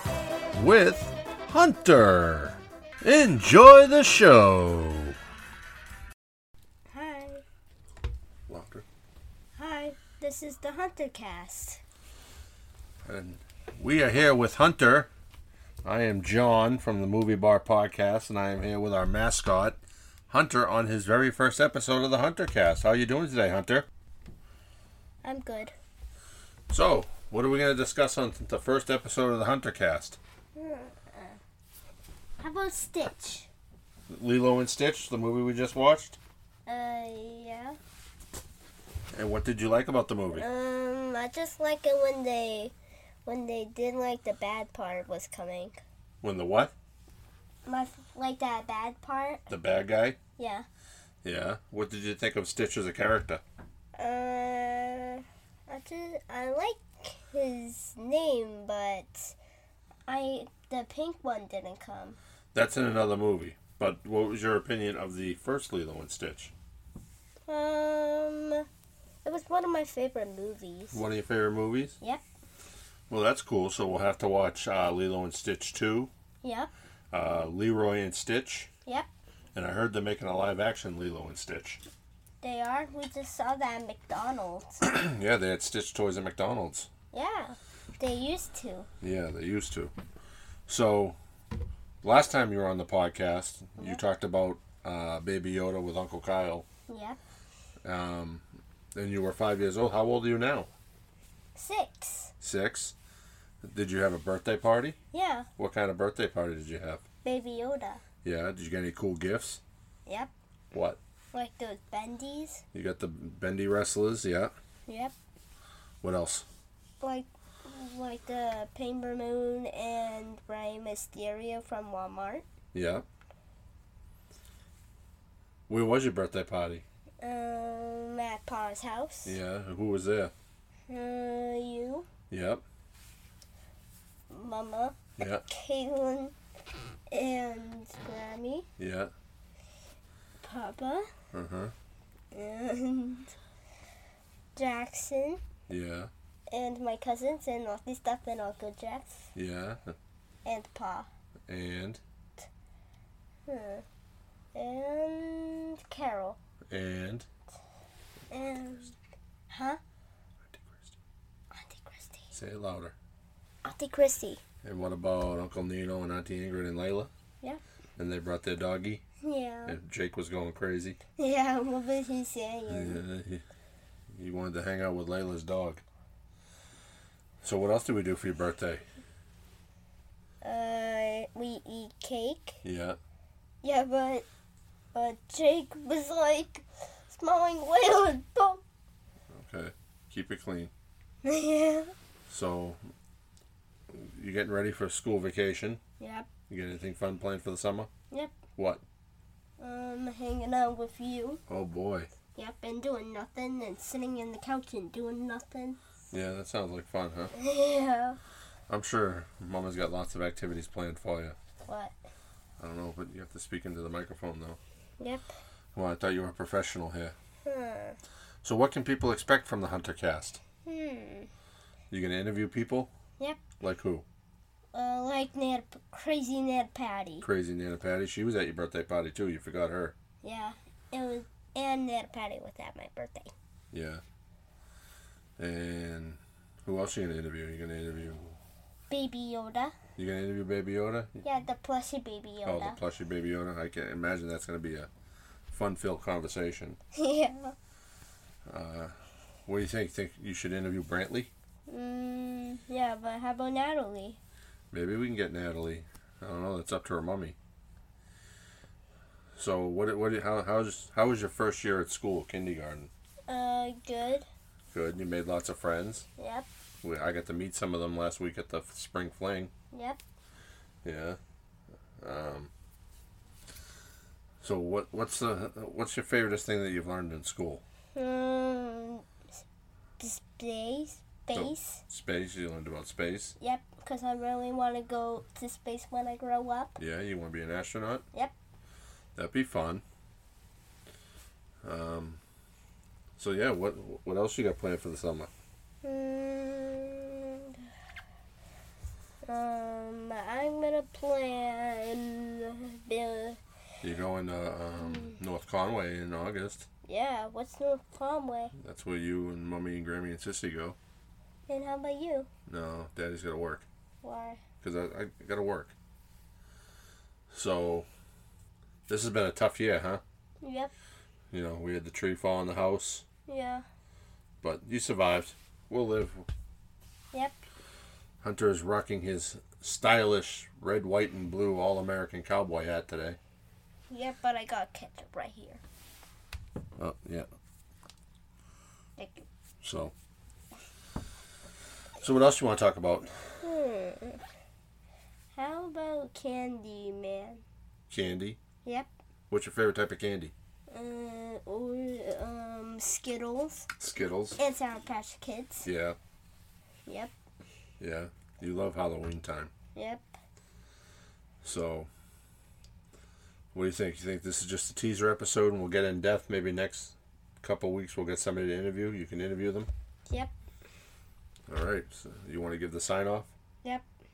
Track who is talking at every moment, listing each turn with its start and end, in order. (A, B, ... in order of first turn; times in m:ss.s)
0:00.5-0:05.2 A
0:06.9-0:07.4 B
0:08.5-0:08.8 A
0:09.6-0:11.8 B
0:13.0-0:15.1 A
0:15.8-0:19.8 A
0:20.3-0:23.8 A
0:25.2-0:25.7 B
0:26.7-0:30.2 A
0:30.6-0:31.4 B
0:32.4-0:33.5 B
0:34.1-0:36.2 A
0:36.6-0:37.8 B
0:39.1-0:40.4 A
0:40.3-0:42.7 B
0:43.2-0:45.8 B
0:46.2-0:46.7 A
0:47.6-0:49.5 B
0:49.5-0:50.2 A
0:50.4-0:50.7 B
0:51.2-0:53.4 A
0:54.0-0:59.3 B
1:00.1-1:02.2 B
1:02.5-1:06.5 A
1:07.5-1:08.6 B
1:09.2-1:11.0 B
1:10.9-1:12.0 A
1:13.1-1:16.1 A
1:16.4-1:16.7 B
1:17.1-1:18.7 A
1:19.5-1:21.8 A
1:22.4-1:24.8 B
1:24.8-1:26.9 A
1:27.1-1:28.9 B
1:29.0-1:29.9 A
1:30.7-1:31.2 A
1:32.0-1:36.6 A
1:36.9-1:37.2 B
1:37.8-1:38.4 A
1:38.9-1:40.7 A
1:41.5-1:42.3 B
1:42.4-1:42.9 A
1:43.6-1:45.0 A
1:45.1-1:45.5 B
1:45.6-1:47.0 A
1:47.2-1:48.0 B
1:48.2-1:49.6 A
1:50.7-1:51.0 A
1:51.3-1:52.6 B
1:52.7-1:54.5 A
1:54.9-1:55.1 B
1:56.0-1:56.4 A
1:57.0-2:02.4 B
2:02.7-2:03.0 A
2:05.7-2:06.8 A
2:07.2-2:09.4 B
2:09.2-2:10.3 A
2:10.9-2:12.1 B
2:12.3-2:12.6 A
2:14.3-2:16.3 B
2:15.2-2:15.4 A
2:17.1-2:18.7 B
2:18.8-2:19.1 A
2:20.4-2:21.1 B
2:21.3-2:21.7 A
2:22.3-2:23.3 B
2:24.5-2:25.4 B
2:25.7-2:26.1 A
2:26.5-2:29.3 B
2:29.3-2:30.0 A
2:30.4-2:31.1 B
2:31.5-2:32.0 A
2:33.5-2:33.8 B
2:34.5-2:36.4 B
2:36.7-2:37.2 A
2:38.3-2:38.9 B
2:39.5-2:39.8 B
2:40.5-2:40.9 A
2:41.5-2:42.3 B
2:42.3-2:42.9 A
2:43.6-2:44.4 B
2:44.6-2:47.1 A
2:48.0-2:49.0 A
2:49.2-2:49.8 B
2:49.7-2:51.0 A
2:51.2-2:53.0 B
2:52.7-2:53.4 A
2:54.1-2:55.8 A
2:57.4-2:58.8 A
3:00.4-3:02.6 B
3:02.6-3:03.0 A
3:03.6-3:04.2 B
3:04.9-3:08.6 B
3:09.3-3:10.7 A
3:11.2-3:11.9 B
3:12.3-3:12.8 A
3:13.9-3:15.8 A
3:16.0-3:16.3 B
3:16.5-3:17.9 A
3:18.6-3:18.8 A
3:19.6-3:21.4 B
3:21.5-3:22.1 A
3:22.4-3:25.8 B
3:26.1-3:27.3 A
3:27.3-3:28.2 B
3:28.7-3:31.4 A
3:31.6-3:31.9 B
3:32.6-3:34.6 A
3:35.0-3:35.3 B
3:35.7-3:37.1 A
3:37.4-3:38.0 B
3:38.4-3:40.4 A
3:40.6-3:41.3 B
3:41.9-3:42.9 A
3:43.6-3:44.0 A
3:44.7-3:47.3 B
3:47.2-3:49.9 A
3:50.2-3:53.3 B
3:53.7-3:54.0 A
3:55.4-3:58.4 A
3:58.9-3:59.8 B
4:00.0-4:01.2 A
4:01.2-4:02.8 B
4:02.4-4:04.9 A
4:05.5-4:06.8 A
4:06.9-4:07.5 B
4:08.4-4:08.9 A
4:09.4-4:11.3 A
4:11.7-4:14.2 B
4:14.7-4:17.4 A
4:19.4-4:22.9 A
4:23.3-4:24.3 B
4:24.7-4:26.0 A
4:26.2-4:26.5 B
4:26.8-4:29.5 A
4:29.7-4:30.0 B
4:30.8-4:31.2 A
4:32.0-4:32.5 A
4:34.4-4:37.6 A
4:37.9-4:39.0 B
4:40.0-4:41.8 B
4:41.3-4:43.4 A
4:43.4-4:46.8 B
4:46.8-4:48.0 A
4:49.2-4:49.8 A
4:51.6-4:52.2 A
4:53.2-4:55.3 A
4:55.8-4:57.6 B
4:59.2-5:03.4 B
5:03.8-5:06.7 A
5:04.8-5:05.1 B
5:06.9-5:08.5 B
5:08.6-5:10.8 A
5:11.5-5:12.3 B
5:12.5-5:13.6 A
5:14.0-5:14.4 B
5:14.6-5:15.7 A
5:17.3-5:17.9 A
5:18.9-5:20.0 A
5:20.4-5:20.7 B
5:21.3-5:23.0 A
5:23.3-5:23.6 B
5:24.4-5:26.3 A
5:28.2-5:33.2 A
5:33.9-5:35.6 B
5:36.8-5:37.3 A
5:39.0-5:39.2 B
5:39.6-5:39.9 A
5:42.0-5:43.1 A
5:43.4-5:44.2 B
5:45.3-5:47.4 B
5:47.9-5:48.4 A
5:48.6-5:48.9 B
5:49.3-5:50.3 A
5:50.7-5:53.7 B
5:53.8-5:54.4 A
5:54.4-5:55.7 B
5:55.6-5:56.0 A
5:56.8-5:57.1 B
5:57.8-5:59.5 A
5:59.7-6:00.1 B
6:01.4-6:01.9 A
6:03.5-6:09.7 A
6:11.5-6:13.3 A